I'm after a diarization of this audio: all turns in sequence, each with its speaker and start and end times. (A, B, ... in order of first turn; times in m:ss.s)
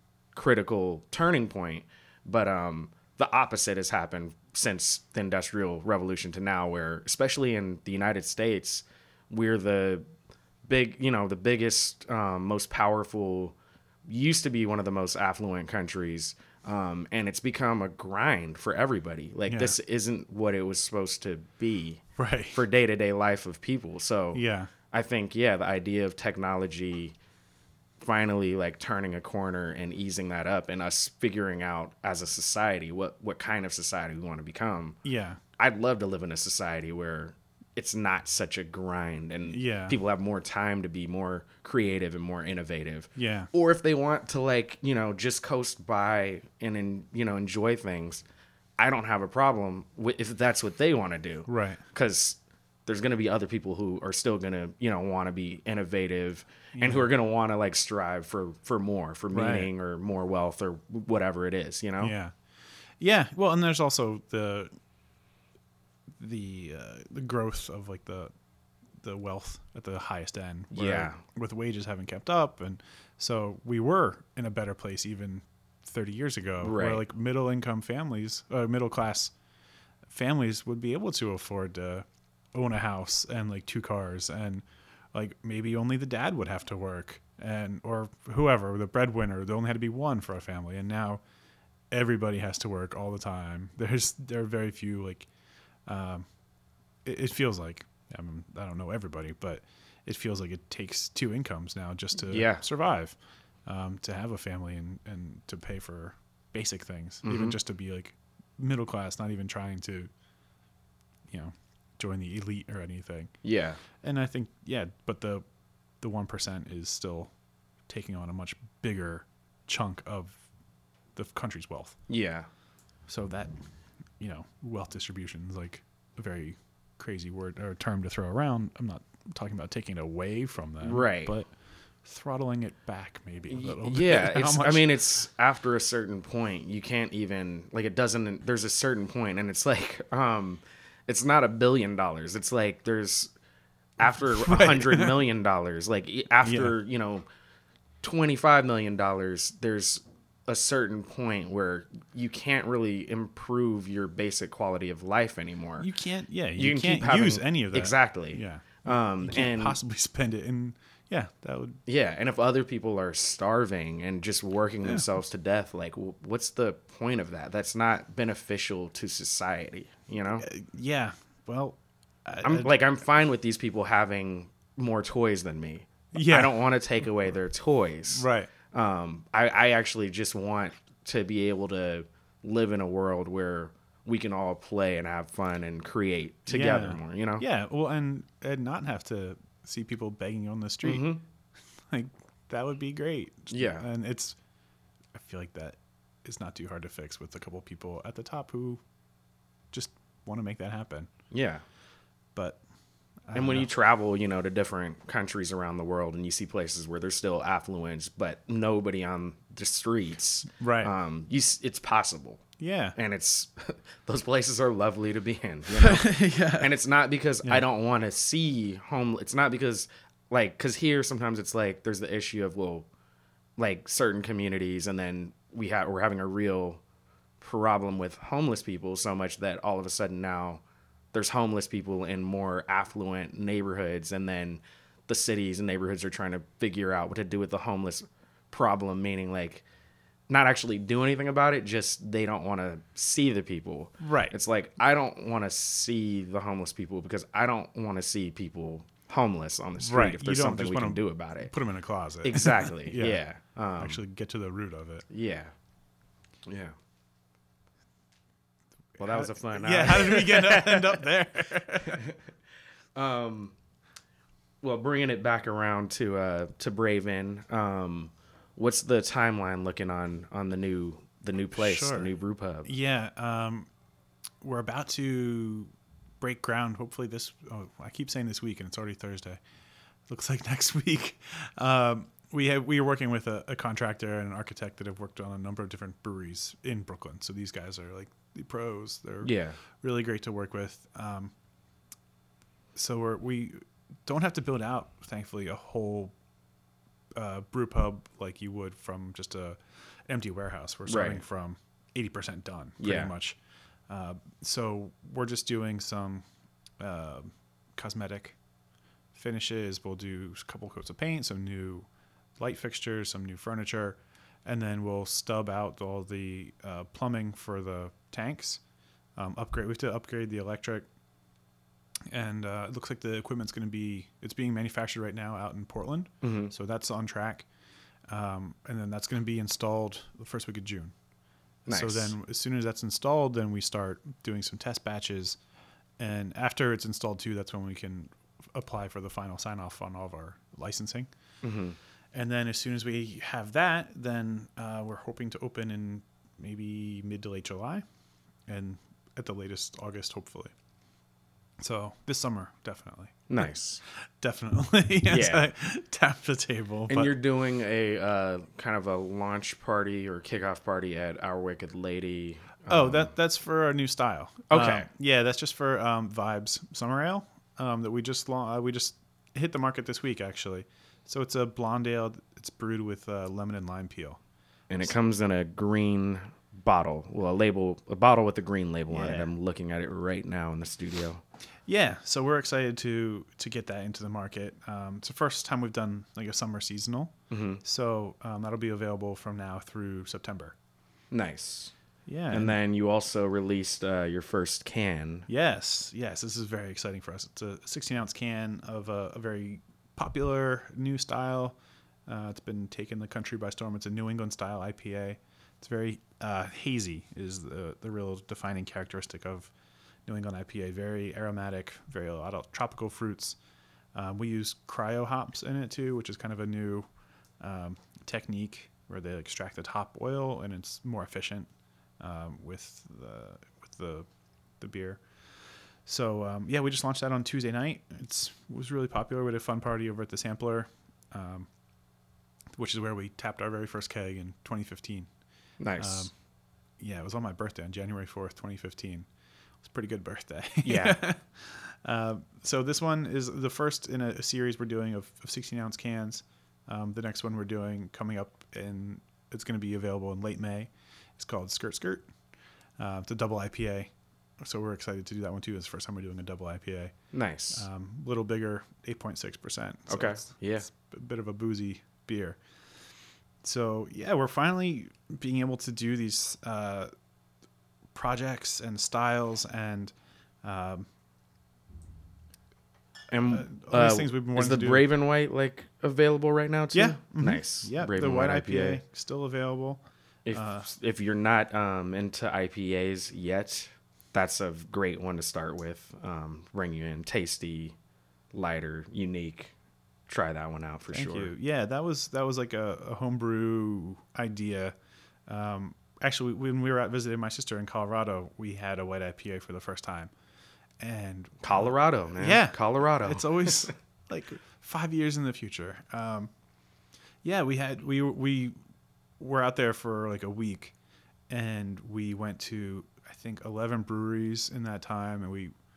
0:00.3-0:10.1 A
0:10.7-0:27.2 A
0:19.5-0:19.8 B
0:22.2-0:22.6 B
0:24.3-0:24.7 B
0:28.0-0:35.0 A
0:35.0-0:35.4 B
0:35.6-0:48.2 A
0:39.5-0:40.0 B
0:43.1-0:43.5 B
0:48.8-1:02.1 A
0:51.5-0:51.8 B
0:56.7-0:57.1 B
0:59.3-0:59.7 B
1:02.0-1:04.7 B
1:06.2-1:08.3 B
1:09.0-1:19.3 B
1:10.7-1:11.2 A
1:16.6-1:17.0 A
1:20.1-1:31.2 B
1:31.9-1:35.3 B
1:35.8-1:36.2 B
1:37.0-1:50.1 B
1:42.3-1:42.6 A
1:47.2-1:47.6 A
1:51.3-1:53.4 B
1:53.4-1:53.8 A
1:53.9-1:55.4 B
1:56.0-2:00.5 B
2:01.1-2:02.0 B
2:02.1-2:02.5 A
2:03.1-2:03.6 B
2:04.2-2:15.0 B
2:10.8-2:11.3 A
2:13.5-2:23.3 A
2:24.0-2:27.2 A
2:24.0-2:25.2 B
2:26.4-2:26.7 B
2:28.0-2:35.9 A
2:35.8-2:41.8 B
2:36.6-2:39.8 A
2:41.8-2:50.4 A
2:50.4-2:52.7 B
2:52.4-3:07.4 A
2:56.1-2:56.6 B
2:58.1-2:58.5 B
3:06.5-3:11.1 B
3:10.8-3:11.2 A
3:11.9-3:14.4 B
3:13.5-3:13.8 A
3:15.1-3:18.8 B
3:19.7-3:21.1 B
3:21.3-3:21.6 A
3:22.3-3:22.6 B
3:23.2-3:23.7 B
3:23.3-3:42.9 A
3:30.6-3:30.9 B
3:32.6-3:33.0 B
3:35.7-3:36.7 B
3:43.6-3:46.8 A
3:47.4-3:50.6 A
3:51.1-3:59.6 A
4:00.3-4:11.5 A
4:04.0-4:04.3 B
4:09.8-4:13.2 B
4:12.2-4:14.0 A
4:13.8-4:15.1 B
4:15.1-4:15.5 A
4:16.4-4:16.7 A
4:19.0-4:21.0 A
4:19.0-4:22.0 B
4:21.8-4:22.2 A
4:22.9-4:23.5 A
4:24.6-4:32.7 A
4:31.5-4:32.1 B
4:32.6-4:33.7 B
4:34.4-4:39.4 B
4:40.1-4:51.3 B
4:49.2-4:49.6 A
4:52.7-4:56.1 B
4:57.2-5:06.2 B
5:00.8-5:01.2 A
5:02.8-5:03.1 A
5:06.8-5:08.4 B
5:09.1-5:18.6 B
5:19.2-5:20.9 B
5:22.1-5:27.5 B
5:26.2-5:26.5 A
5:28.1-5:30.9 B
5:31.6-5:32.1 A
5:31.7-5:35.4 B
5:36.0-5:41.1 B
5:41.4-5:41.8 A
5:42.1-5:47.8 B
5:48.4-5:50.5 B
5:51.6-5:57.1 B
5:53.3-5:53.8 A
5:55.1-5:55.5 A
5:56.9-6:03.1 A
6:02.7-6:14.2 B
6:04.5-6:04.9 A
6:14.7-6:21.2 A
6:18.9-6:19.3 B
6:21.7-6:30.5 B
6:27.3-6:27.6 A
6:31.1-6:31.7 A
6:32.0-6:32.6 B
6:32.3-6:35.3 A
6:35.3-6:49.5 B
6:50.0-6:53.4 B
6:53.9-6:56.9 B
6:57.4-7:04.1 B
7:04.6-7:11.5 B
7:12.5-7:15.1 B
7:15.6-7:16.1 A
7:15.8-7:16.2 B
7:16.8-7:19.1 B
7:19.6-7:32.1 B
7:20.6-7:21.0 A
7:32.8-7:42.4 B
7:37.1-7:37.6 A
7:39.9-7:40.7 A
7:43.4-7:46.9 B
7:47.9-7:50.9 B
7:53.1-7:58.8 A
7:53.3-7:54.8 B
7:56.7-8:00.7 B
8:00.2-8:07.8 A
8:08.3-8:09.5 A
8:10.1-8:11.3 A
8:10.9-8:20.1 B
8:20.8-8:26.3 B
8:21.4-8:23.7 A
8:27.2-8:28.6 B
8:29.2-8:30.7 B
8:31.3-8:35.5 B